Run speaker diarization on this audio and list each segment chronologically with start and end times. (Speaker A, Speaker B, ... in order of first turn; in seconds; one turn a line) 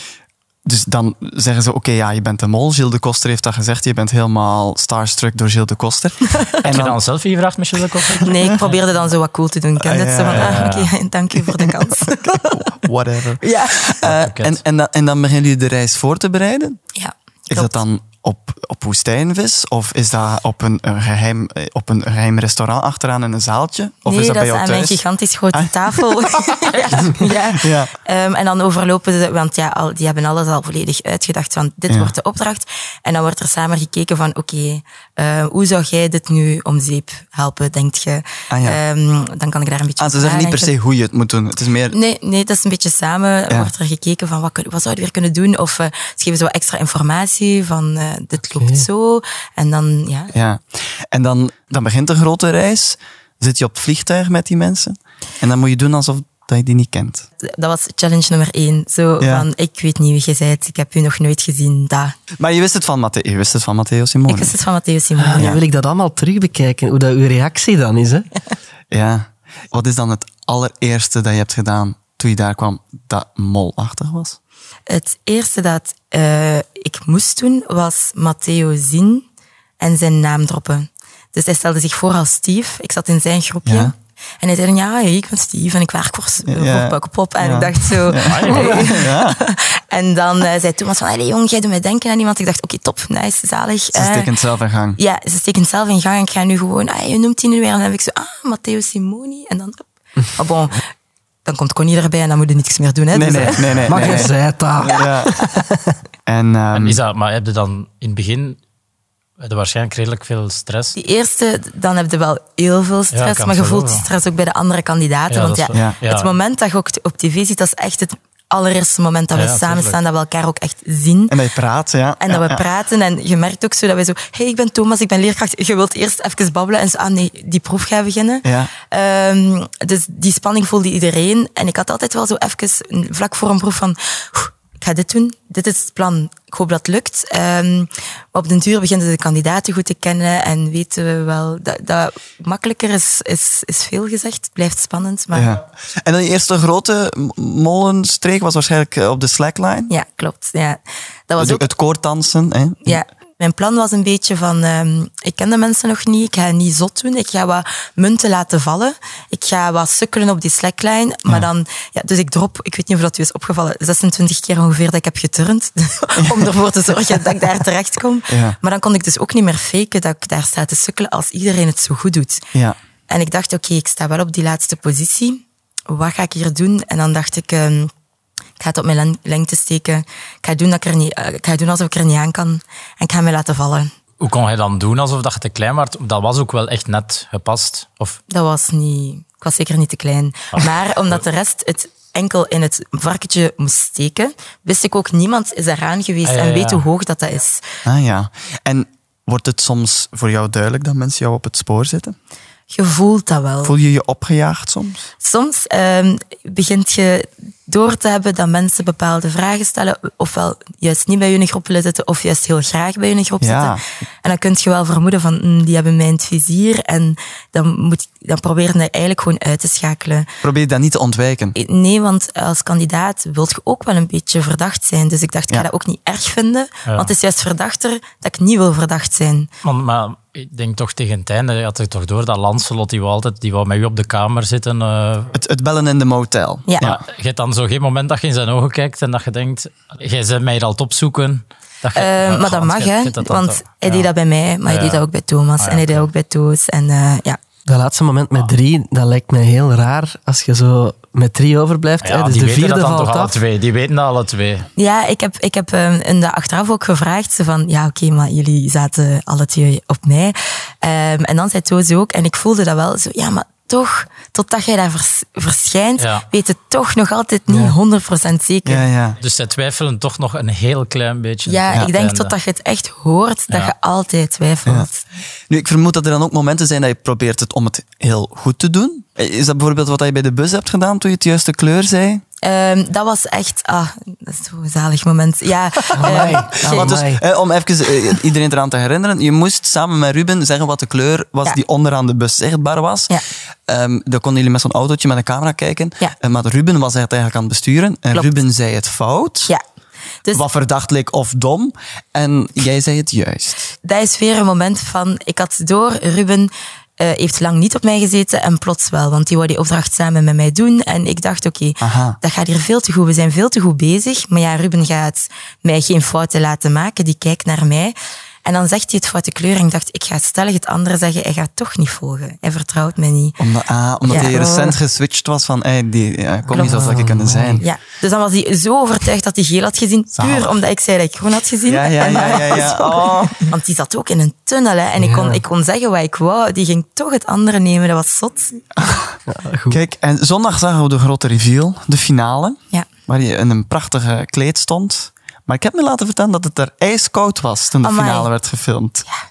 Speaker A: 0.7-7.0
Speaker B: 6.4-6.7
Speaker C: 6.7-8.8
Speaker B: 8.2-12.7
Speaker A: 9.8-10.7
Speaker C: 10.3-10.9
Speaker A: 11.3-16.8
Speaker B: 13.4-13.9
Speaker C: 14.0-14.6
Speaker B: 17.0-17.8
Speaker A: 17.5-25.0
Speaker B: 24.1-40.7
Speaker A: 25.5-26.1
Speaker A: 26.7-27.9
Speaker A: 38.5-38.8
Speaker A: 40.0-42.0
Speaker B: 41.9-50.3
Speaker D: 48.5-48.9
Speaker A: 50.3-57.3
Speaker B: 57.5-62.1
Speaker A: 59.2-59.5
Speaker A: 62.4-64.6
Speaker B: 64.3-65.5
Speaker D: 65.2-68.3
Speaker A: 68.9-74.4
Speaker B: 74.9-79.2
Speaker B: 79.8-94.3
Speaker A: 83.7-83.9
Speaker A: 86.5-89.4
Speaker C: 88.2-89.0
Speaker A: 93.9-95.0
Speaker B: 95.0-100.8
Speaker B: 101.5-104.2
Speaker A: 103.1-105.4
Speaker D: 103.9-106.0
Speaker A: 106.3-107.0
Speaker C: 106.7-108.6
Speaker C: 109.4-111.0
Speaker B: 111.0-121.3
Speaker C: 113.1-114.1
Speaker C: 115.3-116.3
Speaker A: 115.7-116.0
Speaker C: 119.3-120.0
Speaker A: 121.3-122.6
Speaker B: 122.2-145.5
Speaker A: 128.4-128.7
Speaker A: 145.3-149.9
Speaker B: 149.9-151.7
Speaker A: 151.4-153.0
Speaker B: 152.9-172.4
Speaker A: 166.2-166.6
Speaker A: 168.3-168.6
Speaker B: 173.1-177.9
Speaker B: 178.6-183.9
Speaker C: 184.2-188.2
Speaker B: 188.3-197.6
Speaker C: 196.2-196.8
Speaker A: 197.8-202.2
Speaker B: 202.7-203.7
Speaker A: 203.6-205.1
Speaker B: 205.2-220.3
Speaker A: 213.4-213.8
Speaker A: 220.4-221.6
Speaker B: 221.6-229.5
Speaker C: 226.9-227.1
Speaker C: 229.6-235.4
Speaker A: 235.3-237.0
Speaker C: 236.8-244.1
Speaker B: 241.9-247.4
Speaker C: 244.7-245.0
Speaker C: 245.6-246.1
Speaker D: 247.7-253.3
Speaker C: 252.0-254.7
Speaker B: 254.8-268.8
Speaker C: 266.0-266.3
Speaker D: 267.5-267.7
Speaker A: 268.6-269.2
Speaker C: 269.2-272.3
Speaker B: 271.5-275.0
Speaker A: 275.5-282.2
Speaker B: 282.4-287.0
Speaker D: 285.9-287.2
Speaker A: 286.0-293.2
Speaker A: 293.7-299.5
Speaker A: 300.3-303.7
Speaker B: 303.8-323.4
Speaker A: 311.8-312.2
Speaker A: 323.4-327.7
Speaker B: 324.1-324.8
Speaker D: 326.5-327.6
Speaker B: 326.5-326.9
Speaker B: 327.6-338.6
Speaker A: 330.2-330.5
Speaker A: 331.7-333.5
Speaker D: 335.0-335.4
Speaker A: 338.8-339.1
Speaker D: 339.3-339.8
Speaker A: 339.7-349.1
Speaker B: 347.8-348.3